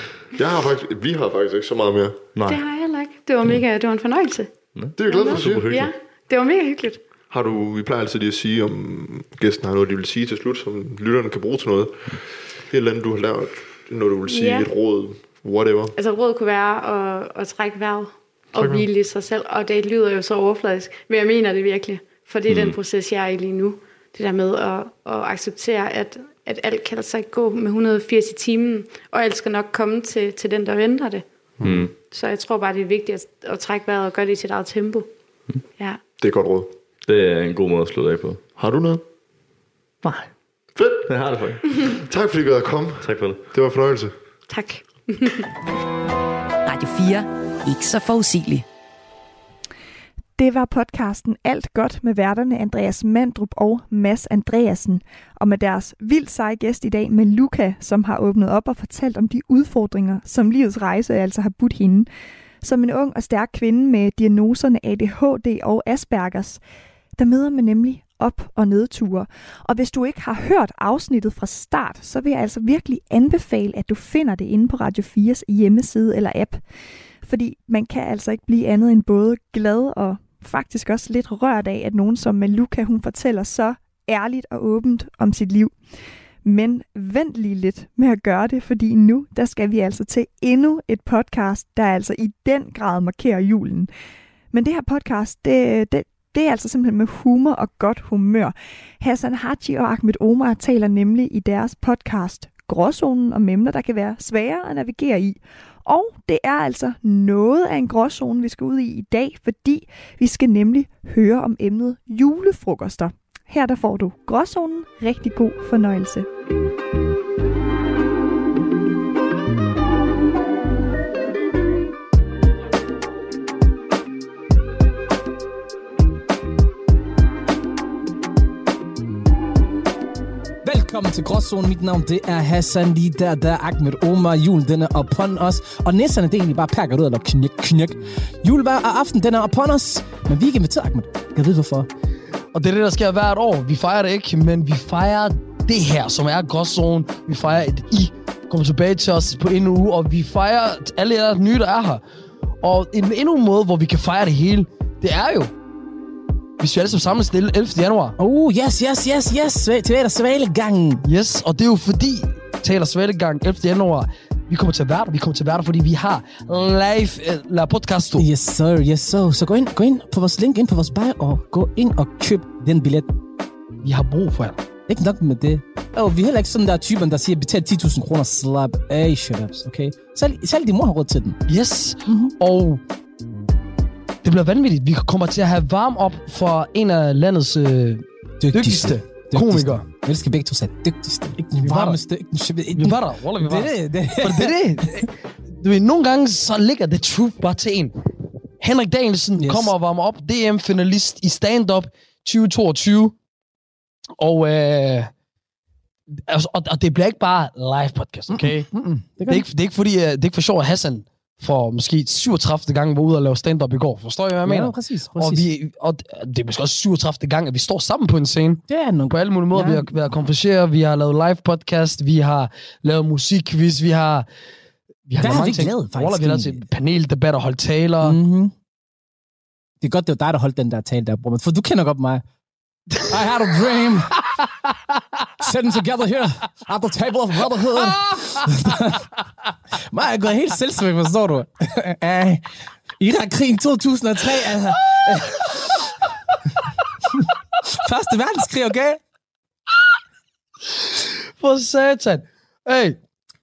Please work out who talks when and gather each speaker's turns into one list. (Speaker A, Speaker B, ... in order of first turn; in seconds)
Speaker A: 0.3-2.2, 5.0-5.7, 7.3-15.9, 18.5-18.9, 31.6-31.9, 36.2-36.7, 38.6-39.0, 40.8-41.1, 41.9-44.1
Speaker B: 2.4-2.6, 4.8-5.9, 22.5-22.8, 31.6-31.9, 37.1-38.4, 41.1-42.0, 43.0-43.4
Speaker C: 2.5-4.5, 5.0-7.0, 14.3-14.7, 16.0-31.2, 32.1-35.1, 44.5-45.5
Speaker D: 46.6-48.6
Speaker E: 50.4-62.1, 62.6-66.6, 67.2-76.6, 77.2-85.8, 86.4-93.9, 94.5-116.3
Speaker F: 130.6-141.9, 158.2-161.0, 168.2-173.1, 174.9-181.4, 182.1-182.3, 188.4-195.0, 199.4-199.7, 208.3-209.5, 214.4-215.5, 218.7-219.9, 225.2-226.6, 228.0-228.5, 229.8-232.2, 233.1-234.1, 235.4-239.1, 239.9-242.5, 243.0-245.5, 247.7-249.0
Speaker G: 142.5-152.0, 152.6-155.5, 156.6-158.2, 161.0-168.3, 173.8-174.6, 181.4-182.8, 184.2-189.9, 191.6-192.0, 192.7-197.9, 198.6-203.2, 204.2-205.1, 206.2-208.7, 209.3-224.3, 225.1-228.2, 237.8-238.4, 251.4-253.0